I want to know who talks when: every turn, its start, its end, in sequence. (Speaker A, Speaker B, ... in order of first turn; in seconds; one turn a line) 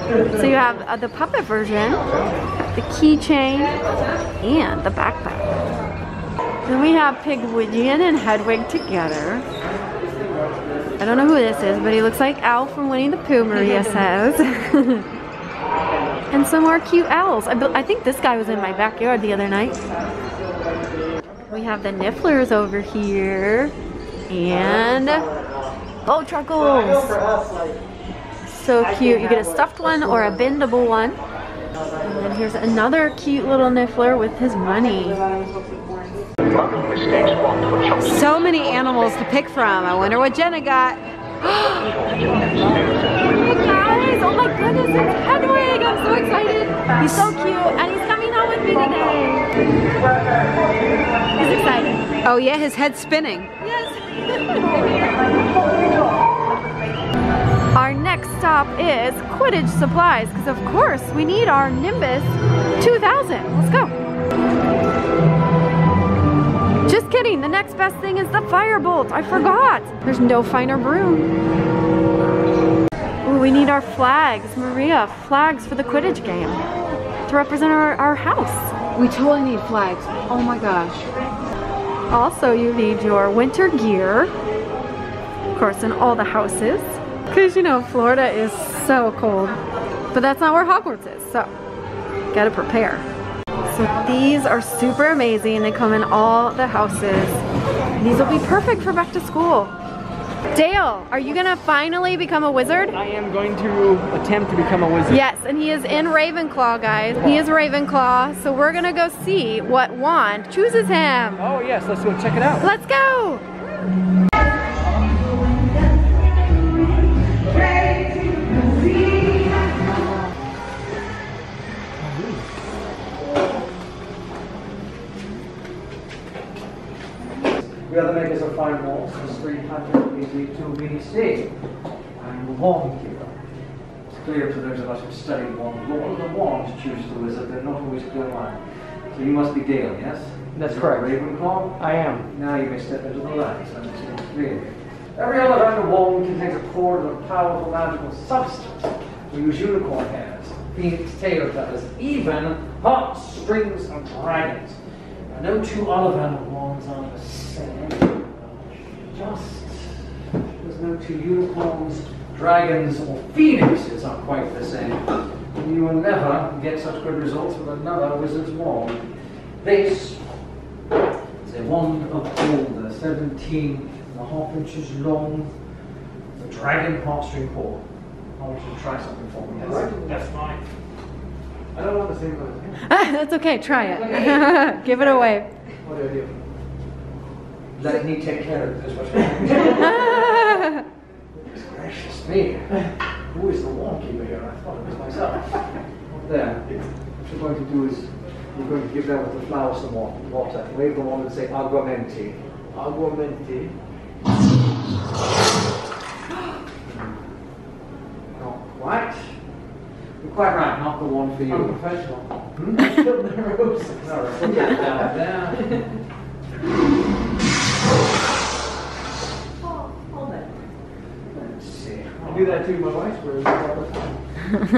Speaker A: 0.3-2.0
Speaker A: 2.7-3.8
Speaker A: 4.4-5.5
Speaker A: 6.7-9.4
Speaker B: 10.3-10.8
Speaker A: 11.0-15.1
Speaker B: 13.6-13.8
Speaker A: 16.3-19.8
Speaker A: 21.5-23.7
Speaker A: 24.3-25.3
Speaker A: 26.1-27.2
Speaker A: 28.5-31.2
Speaker A: 32.0-35.2
Speaker C: 38.0-41.0
Speaker A: 41.4-42.0
Speaker A: 43.2-49.5
Speaker A: 51.3-52.1
Speaker C: 52.2-53.5
Speaker A: 53.6-55.0
Speaker A: 57.7-63.9
Speaker A: 66.8-71.3
Speaker A: 73.2-76.6
Speaker A: 77.3-78.7
Speaker C: 78.9-81.1
Speaker A: 82.1-84.3
Speaker A: 85.5-89.6
Speaker A: 90.1-91.5
Speaker A: 92.3-93.0
Speaker A: 93.7-97.4
Speaker A: 98.0-99.8
Speaker A: 100.5-103.0
Speaker B: 102.9-105.2
Speaker A: 105.1-111.4
Speaker B: 111.4-112.7
Speaker A: 112.6-113.4
Speaker C: 117.7-119.3
Speaker B: 122.0-122.4
Speaker D: 127.4-131.5
Speaker D: 132.2-133.4
Speaker D: 134.0-160.1
Speaker B: 140.6-141.1
Speaker B: 141.8-142.2
Speaker D: 160.6-169.1
Speaker D: 169.6-170.3
Speaker D: 171.4-175.5
Speaker D: 176.3-177.8
Speaker D: 178.3-180.1
Speaker B: 179.6-180.6
Speaker D: 181.7-182.8
Speaker A: 182.8-185.5
Speaker D: 183.9-184.9
Speaker C: 183.9-184.3
Speaker D: 185.8-186.4
Speaker D: 187.7-190.6
Speaker A: 189.9-190.7
Speaker D: 191.3-202.4
Speaker B: 202.7-203.7
Speaker D: 206.8-207.2
Speaker D: 208.3-209.3
Speaker D: 210.2-215.7
Speaker B: 211.5-213.1
Speaker B: 214.4-215.1
Speaker D: 221.3-222.7
Speaker B: 222.2-224.1